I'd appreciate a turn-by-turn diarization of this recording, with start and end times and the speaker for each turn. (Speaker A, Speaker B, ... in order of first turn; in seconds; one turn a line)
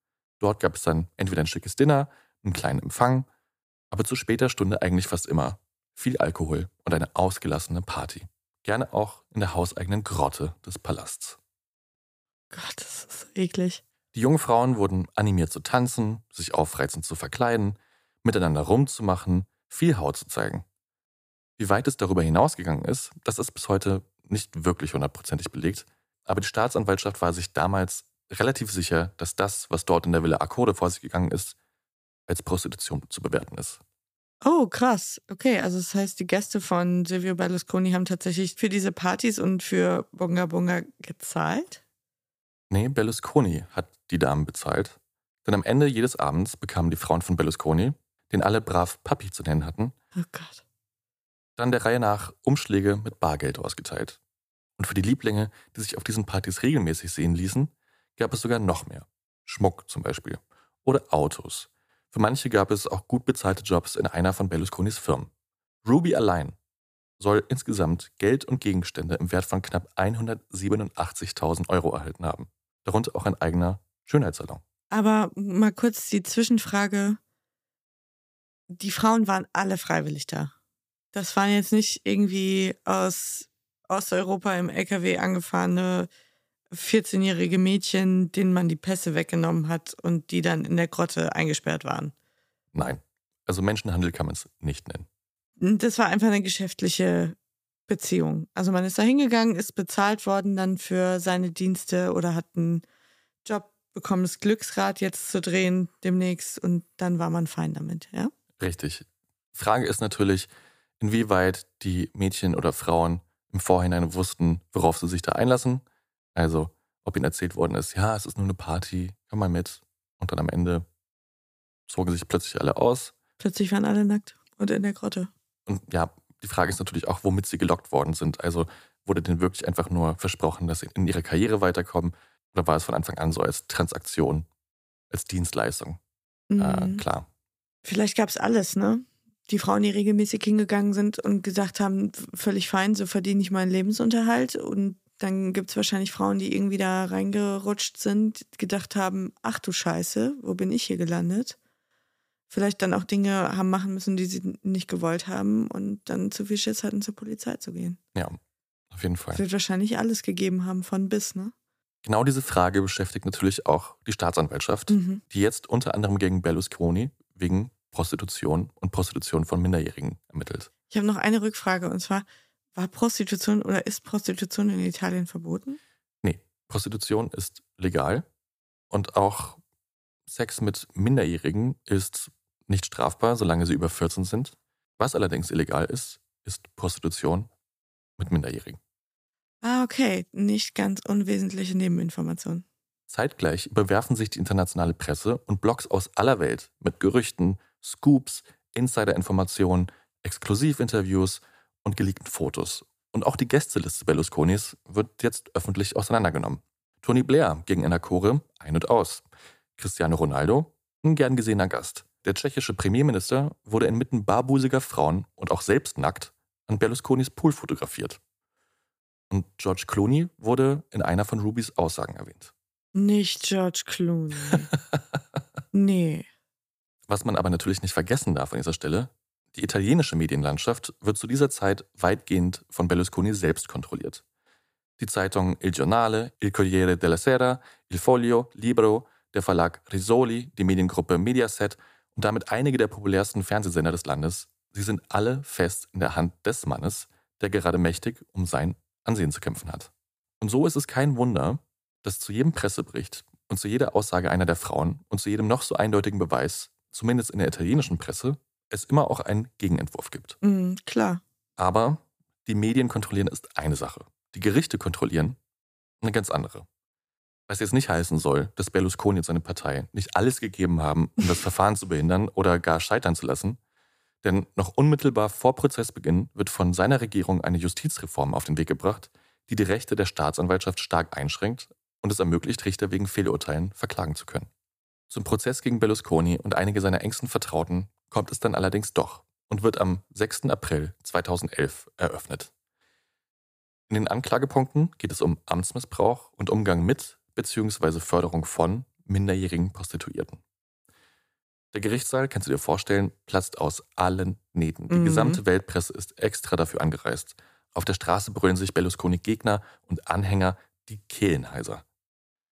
Speaker A: 0.4-3.3
Speaker A: 3.9-11.4
Speaker B: 12.5-13.8
Speaker A: 14.1-20.6
Speaker A: 21.6-31.6
Speaker A: 32.3-33.8
Speaker B: 34.4-41.8
Speaker A: 42.7-49.9
Speaker B: 50.1-50.6
Speaker A: 51.6-54.2
Speaker A: 54.8-65.3
Speaker A: 65.8-66.6
Speaker A: 67.2-74.6
Speaker B: 74.9-77.2
Speaker B: 78.7-80.5
Speaker B: 81.1-86.1
Speaker B: 86.7-92.1
Speaker A: 92.7-95.1
Speaker B: 95.6-97.3
Speaker B: 97.9-102.8
Speaker B: 103.4-108.3
Speaker A: 108.6-120.8
Speaker A: 121.9-123.1
Speaker B: 123.4-125.3
Speaker A: 125.7-134.5
Speaker A: 135.1-136.0
Speaker B: 136.5-137.0
Speaker A: 136.6-137.3
Speaker B: 137.8-151.6
Speaker B: 152.5-158.0
Speaker A: 158.1-158.4
Speaker A: 158.9-159.4
Speaker B: 159.3-161.5
Speaker A: 162.0-170.7
Speaker B: 164.9-165.2
Speaker B: 170.9-175.8
Speaker A: 176.2-178.2
Speaker A: 178.9-179.6
Speaker A: 180.3-187.5
Speaker A: 188.2-188.8
Speaker B: 189.6-192.6
Speaker A: 193.1-209.2
Speaker A: 209.8-218.2
Speaker A: 219.3-222.5
Speaker B: 222.9-224.7
Speaker B: 225.7-226.3
Speaker A: 227.1-234.2
Speaker A: 235.0-260.4
Speaker B: 260.4-261.2
Speaker A: 261.6-265.4
Speaker A: 266.0-266.7
Speaker A: 267.5-273.6
Speaker A: 274.2-284.5
Speaker A: 285.1-292.5
Speaker A: 293.9-300.4
Speaker A: 301.7-311.8
Speaker B: 304.9-305.4